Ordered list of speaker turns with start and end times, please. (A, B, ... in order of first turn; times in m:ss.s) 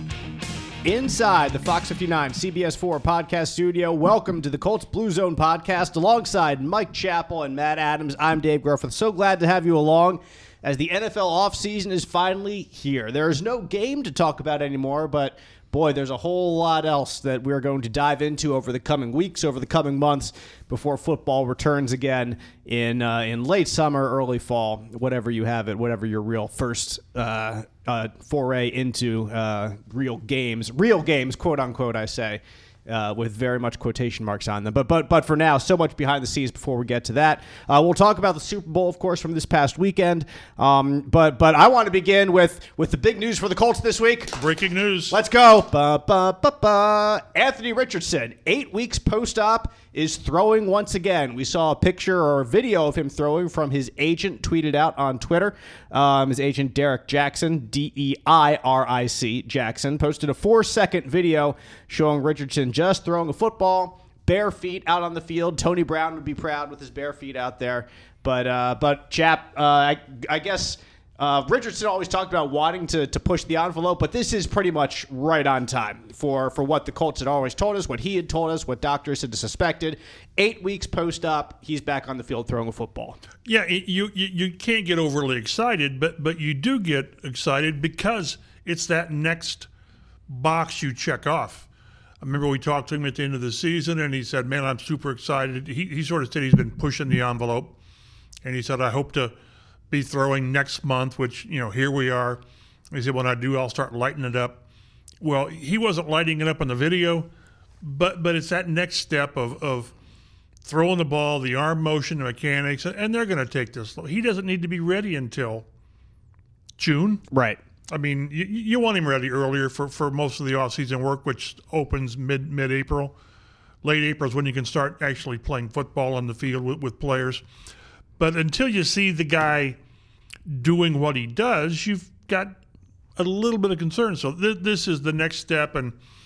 0:00.8-0:44.4 A
0:44.4-0:45.2 B
0:45.1-1:23.2 A
1:23.5-1:29.7 B
1:30.3-1:31.7 B
1:32.2-1:37.8 B
1:38.4-1:39.3 B
1:39.9-1:44.6 B
1:45.2-1:47.3 B
1:47.8-1:49.9 B
1:50.6-1:55.7 B
1:56.8-1:57.2 B
1:57.3-1:57.6 A
1:57.9-2:03.2 B
2:03.8-2:07.4 B
2:08.2-2:09.8 B
2:10.5-2:12.6 B
2:13.2-2:16.0 B